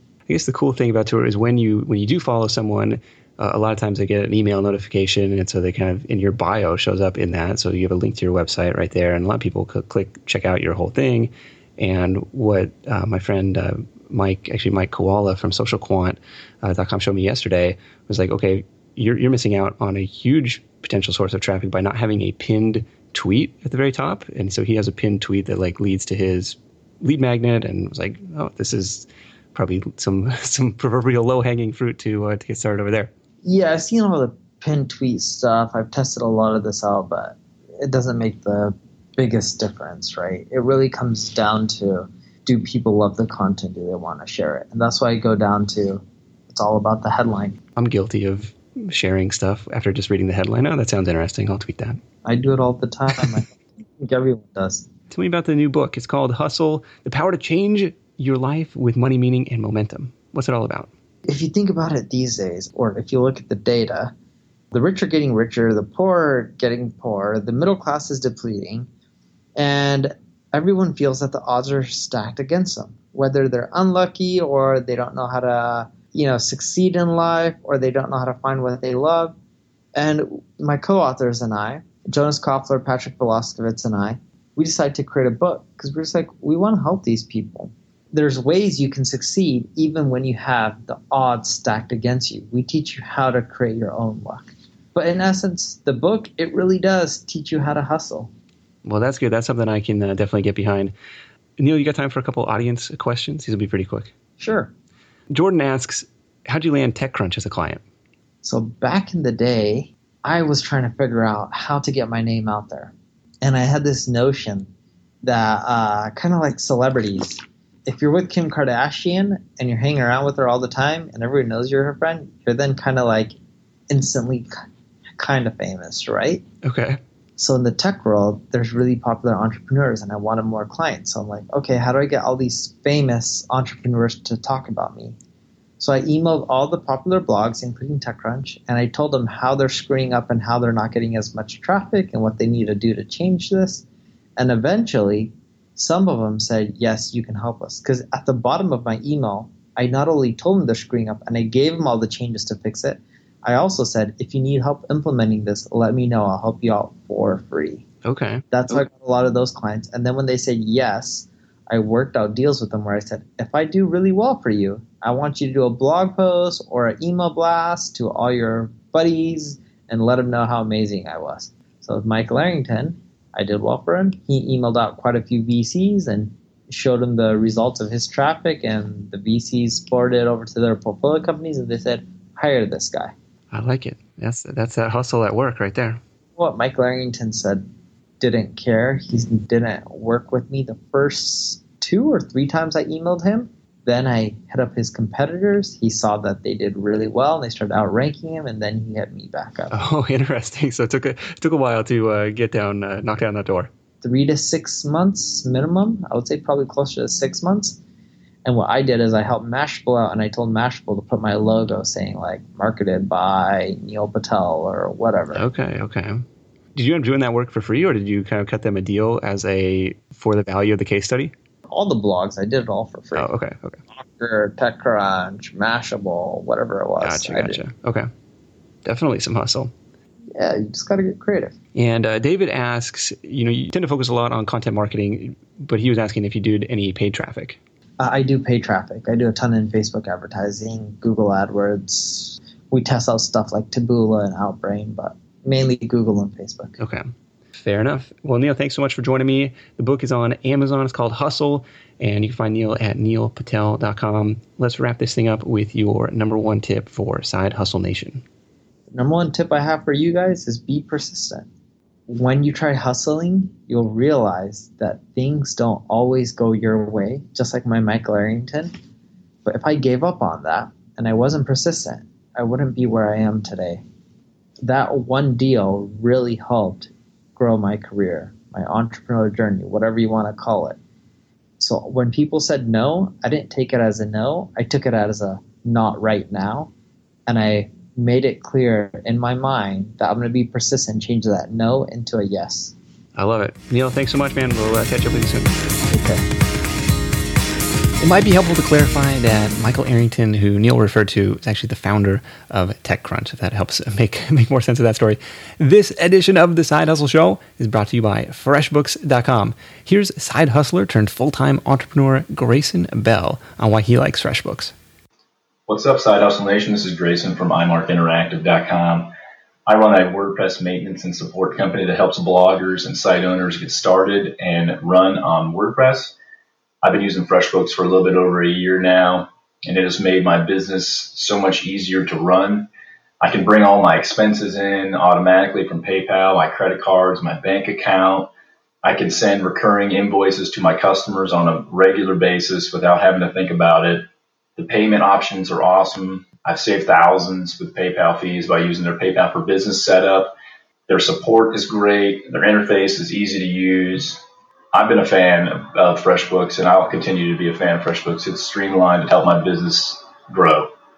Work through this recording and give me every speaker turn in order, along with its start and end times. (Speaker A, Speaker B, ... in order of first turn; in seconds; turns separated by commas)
Speaker A: 0.3-33.1, Speaker B: 33.4-47.6, Speaker A: 47.8-52.0, Speaker B: 52.2-54.9, Speaker A: 55.1-60.9, Speaker B: 61.2-64.1, Speaker B: 64.7-68.9, Speaker B: 69.5-79.3, Speaker B: 79.9-98.3, Speaker A: 98.8-100.9, Speaker A: 101.6-104.1, Speaker B: 104.4-104.7, Speaker A: 105.3-107.8, Speaker B: 108.4-114.7, Speaker B: 115.2-123.3, Speaker B: 123.9-124.5, Speaker B: 125.2-126.4, Speaker A: 126.6-127.0, Speaker B: 127.4-135.2, Speaker B: 135.8-143.8, Speaker B: 144.4-157.8, Speaker A: 158.0-158.8, Speaker B: 158.5-183.1, Speaker A: 183.5-186.0, Speaker B: 186.4-187.6, Speaker B: 188.2-199.7, Speaker A: 199.7-203.7, Speaker B: 204.0-207.8, Speaker B: 208.4-215.4, Speaker A: 215.3-221.3, Speaker B: 221.7-223.3, Speaker A: 223.1-223.8, Speaker B: 223.9-227.6, Speaker A: 227.0-228.1, Speaker A: 228.8-229.7, Speaker B: 230.3-231.5, Speaker A: 231.7-237.6, Speaker B: 238.0-246.7, Speaker A: 246.8-258.2, Speaker B: 258.9-261.5, Speaker B: 262.1-268.7, Speaker B: 269.4-273.8, Speaker B: 274.6-280.8, Speaker B: 281.6-286.7, Speaker B: 287.3-292.7, Speaker A: 293.1-295.6, Speaker C: 298.0-314.7, Speaker D: 315.7-319.1, Speaker D: 319.6-326.1, Speaker D: 326.8-332.7, Speaker D: 333.2-338.3, Speaker D: 338.8-350.3, Speaker D: 350.9-354.2, Speaker D: 354.7-360.7